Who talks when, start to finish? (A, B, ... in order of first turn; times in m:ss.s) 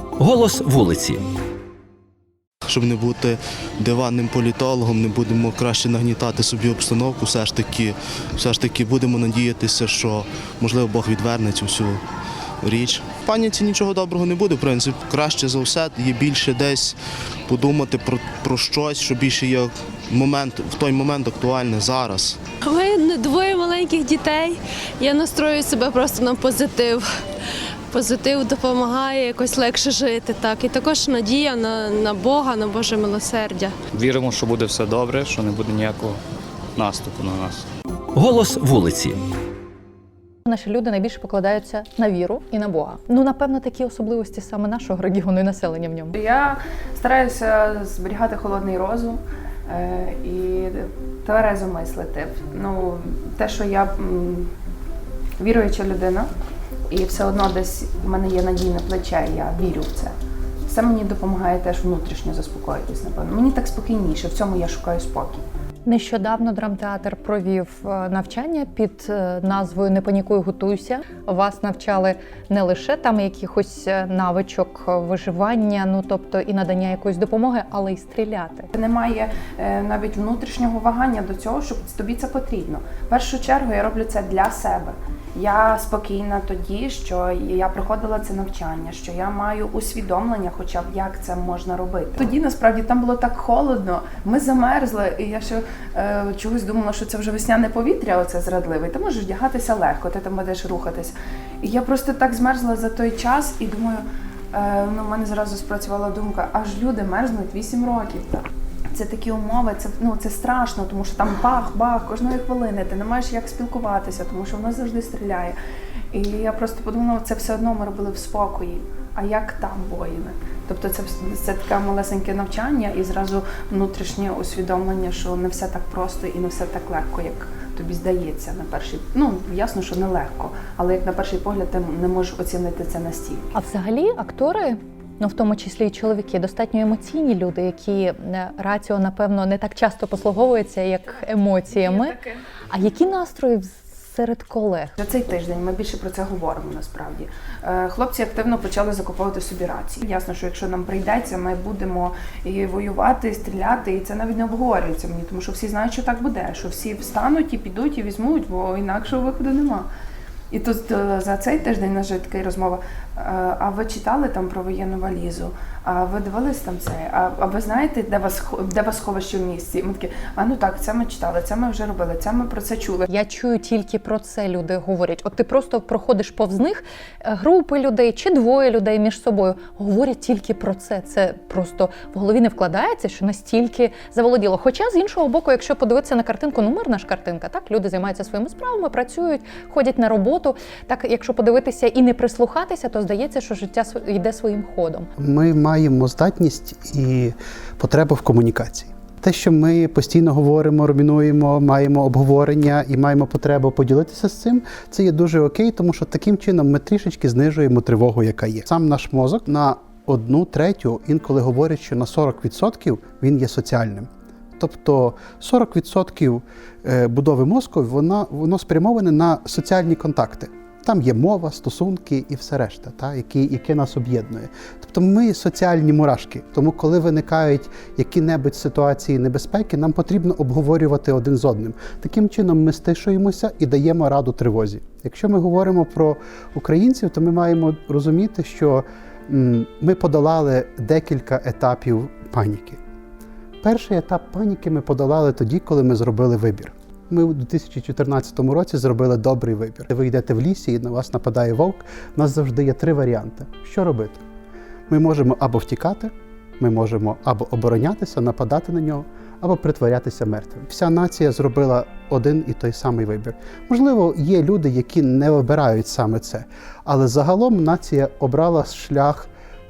0:00.2-0:01.2 A
0:02.6-0:12.0 B
0:12.6-0:22.4 B
0:22.6-0:27.2 C
0:27.9-0:33.7 C
0:33.9-0:36.2 D
0:36.8-0:37.7 D
0:38.1-0:39.2 A
0:40.4-0:46.2 E
0:46.2-0:54.5 F
0:55.4-0:56.3 F
0:56.9-1:00.1 F
1:00.7-1:05.5 F
1:05.8-1:18.7 E
1:18.7-1:55.5 F
1:56.1-2:13.5 F
2:13.5-2:22.2 E
2:22.7-2:24.9 E
2:25.0-2:39.9 F
2:40.5-2:53.0 F
2:53.1-3:15.1 E
3:15.2-4:02.8 G
4:03.6-4:14.2 G
4:14.9-4:29.3 G